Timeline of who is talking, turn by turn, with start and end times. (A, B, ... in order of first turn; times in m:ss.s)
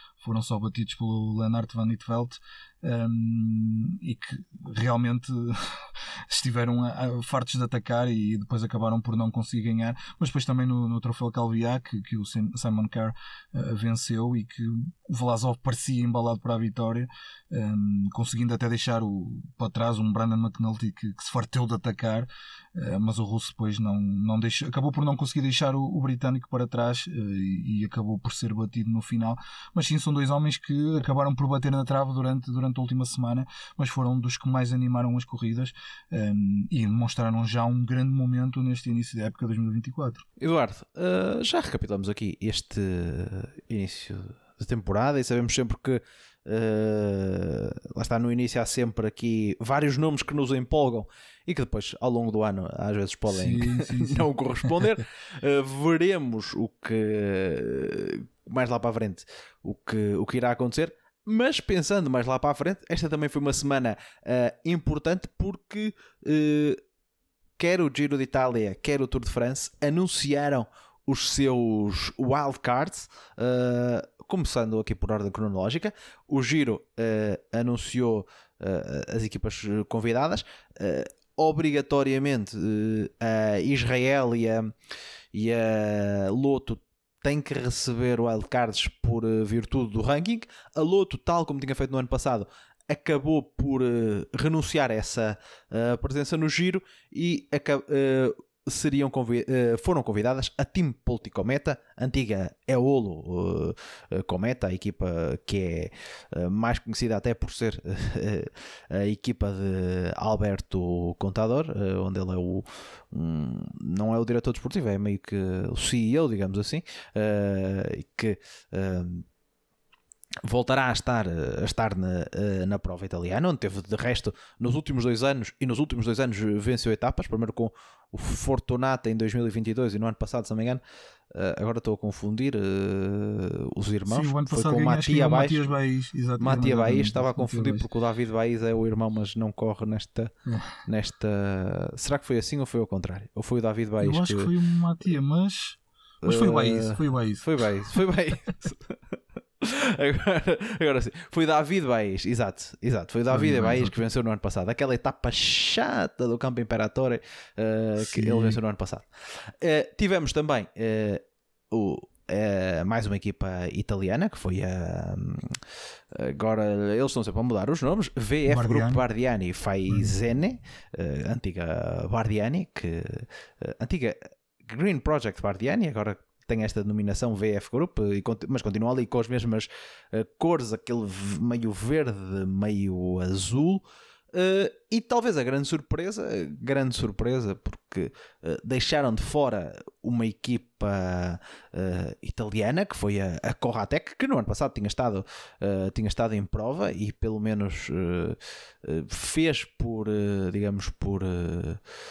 0:00.2-0:40.2 A
0:40.4-1:06.8 B
0:53.3-0:54.8 A
1:07.6-1:24.7 B
1:25.3-1:59.2 B
2:00.4-2:15.6 B
2:14.1-2:17.9 A
2:16.4-2:20.3 B
2:20.5-2:20.7 A
2:20.8-2:24.5 B
2:24.0-2:27.6 A
2:26.2-2:29.0 B
2:29.6-2:45.6 B
2:33.3-2:34.0 A
2:38.0-2:38.6 A
2:46.1-3:21.8 B
2:48.5-2:49.0 A